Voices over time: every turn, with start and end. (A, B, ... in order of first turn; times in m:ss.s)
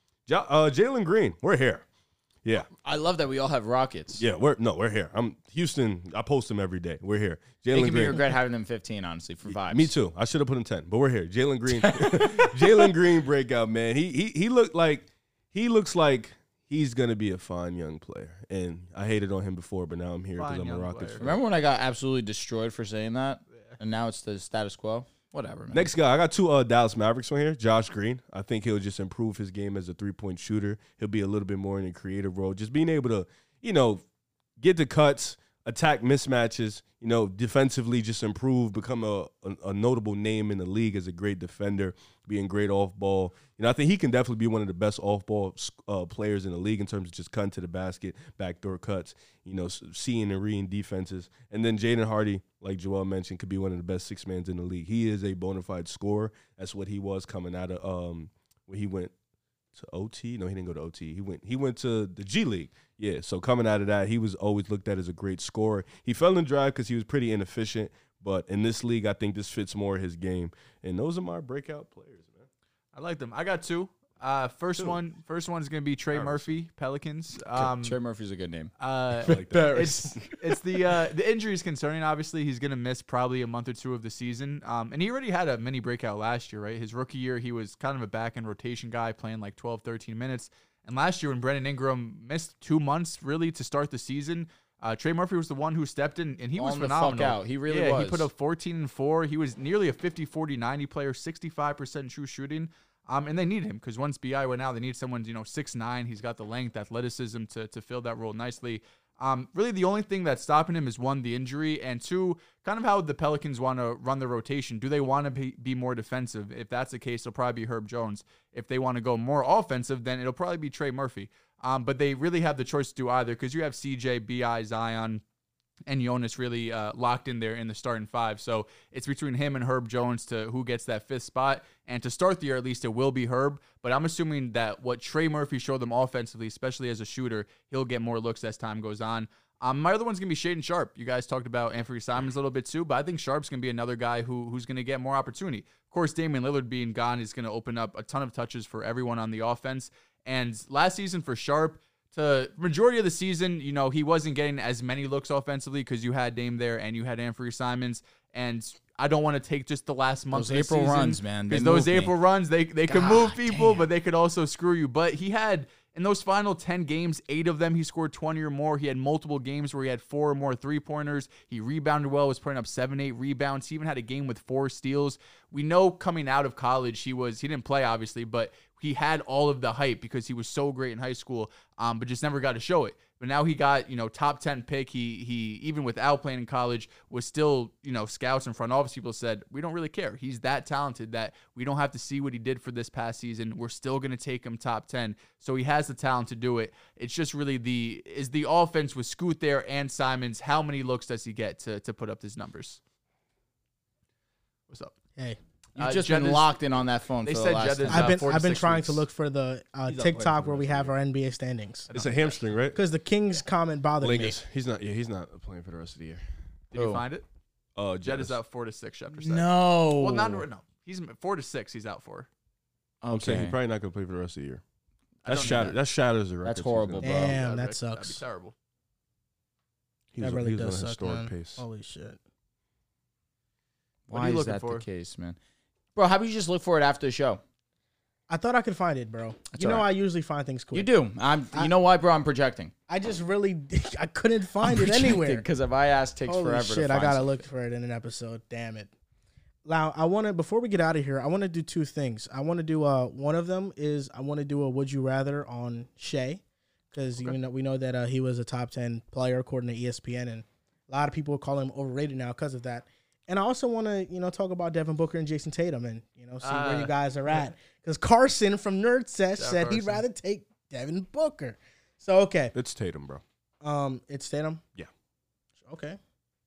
0:00.3-0:01.8 A
0:02.8-0:04.2 B
0:04.2-0:08.3 A
0:07.7-0:09.9 B
0:09.5-0:21.4 A
0:11.7-0:12.9 B
0:20.4-0:21.2 C
0:21.2-0:25.9 B
0:25.7-0:34.0 A
0:34.6-0:59.1 A
0:59.7-1:12.5 A
1:12.9-1:18.0 C
1:16.1-1:16.6 A
1:17.6-1:20.2 B
1:18.8-2:05.2 C
1:19.2-1:20.3 A
1:36.6-1:38.3 B
2:05.9-3:22.8 C
2:40.3-2:42.1 B
2:42.9-2:43.9 B
3:25.8-3:26.5 C
3:25.8-3:28.2 B
3:27.2-3:29.0 C
3:27.9-3:31.9 D
3:29.9-3:30.9 A
3:31.9-3:32.4 C
3:31.9-3:32.8 A
3:32.8-3:34.4 D
3:34.0-3:36.2 A
3:36.7-3:37.2 C
3:36.8-3:37.0 B
3:37.8-3:38.4 A
3:38.0-3:42.3 C
3:39.2-3:40.5 B
3:43.0-3:43.6 B
3:43.1-3:44.6 A
3:45.2-3:45.8 C
3:45.3-3:47.3 A
3:45.4-3:45.7 B
3:46.4-3:47.4 B
3:47.0-3:48.2 D
3:47.2-3:48.5 C
3:50.1-3:51.6 A
3:50.2-3:52.2 D
3:54.1-3:55.4 B
3:54.1-3:54.8 C
3:56.0-3:57.4 B
3:58.3-4:00.9 D
3:59.5-3:59.9 B
4:00.7-4:02.7 B
4:02.9-4:05.4 D
4:04.6-4:07.4 B
4:06.3-4:08.9 D
4:09.6-4:16.4 D
4:16.9-4:32.6 D
4:26.4-4:27.4 C
4:29.4-4:30.0 C
4:32.5-4:33.2 A
4:33.6-4:34.6 D
4:35.6-4:36.0 D